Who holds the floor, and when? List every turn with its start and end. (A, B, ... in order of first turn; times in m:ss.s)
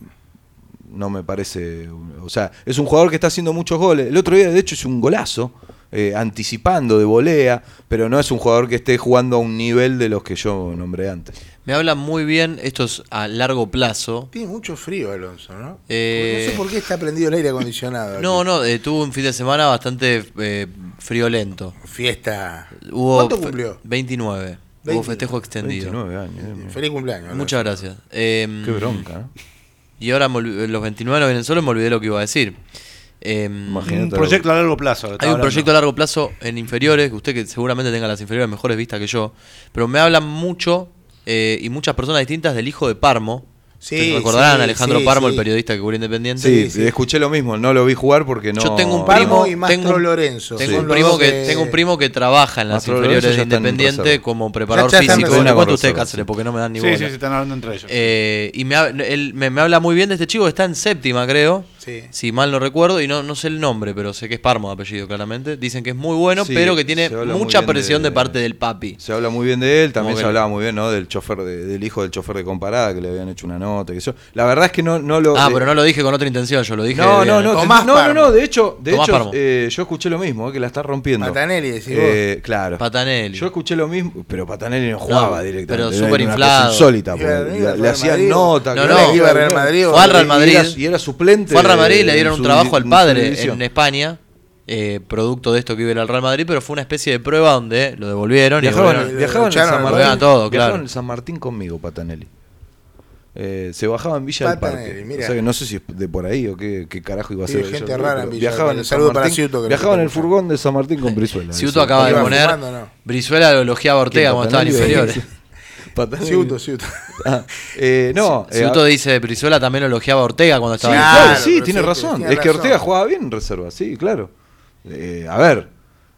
0:00.9-0:11.3 A
0:11.6-0:14.3 B
0:14.3-0:18.4 C
0:15.9-0:16.6 B
0:18.2-0:21.8 B
0:21.8-0:23.8 C
0:22.8-0:26.0 B
0:24.8-0:25.3 C
0:25.6-0:26.8 A
0:26.6-0:27.7 C
0:27.3-0:29.0 B
0:28.6-0:29.3 A
0:30.0-0:32.6 B
0:33.2-0:33.9 B
0:33.7-0:34.4 A
0:33.8-0:35.7 D
0:35.2-0:43.4 B
0:43.8-0:45.4 C
0:44.0-0:46.5 B
0:46.4-0:49.5 A
0:46.4-0:46.9 C
0:48.6-0:57.1 B
0:49.1-0:51.8 C
0:50.6-0:50.9 A
0:52.7-0:54.2 A
0:54.7-0:55.6 C
0:55.0-0:56.2 A
0:56.8-0:58.0 D
0:57.9-1:09.0 B
1:01.8-1:02.1 C
1:06.4-1:08.4 A
1:09.0-1:15.7 A
1:10.0-1:10.4 B
1:15.3-1:17.5 B
1:16.9-1:22.8 A
1:17.5-1:18.3 C
1:18.9-1:19.3 B
1:21.2-1:22.2 C
1:22.8-1:23.5 B
1:23.3-1:33.6 A
1:25.0-1:26.9 B
1:27.1-1:30.3 C
1:28.7-1:29.2 B
1:29.9-1:30.8 B
1:31.5-1:39.1 B
1:38.6-1:42.3 A
1:38.7-1:40.2 C
1:39.8-1:40.8 B
1:43.3-1:52.4 A
1:44.4-1:45.4 C
1:47.4-1:50.3 C
1:51.5-1:55.2 B
1:52.0-1:52.9 C
1:54.1-1:55.2 A
1:55.9-1:56.6 A
1:56.2-1:57.1 C
1:57.2-1:58.8 A
1:58.4-2:01.4 B
2:00.8-2:02.8 C
2:00.8-2:04.3 A
2:04.8-2:05.7 A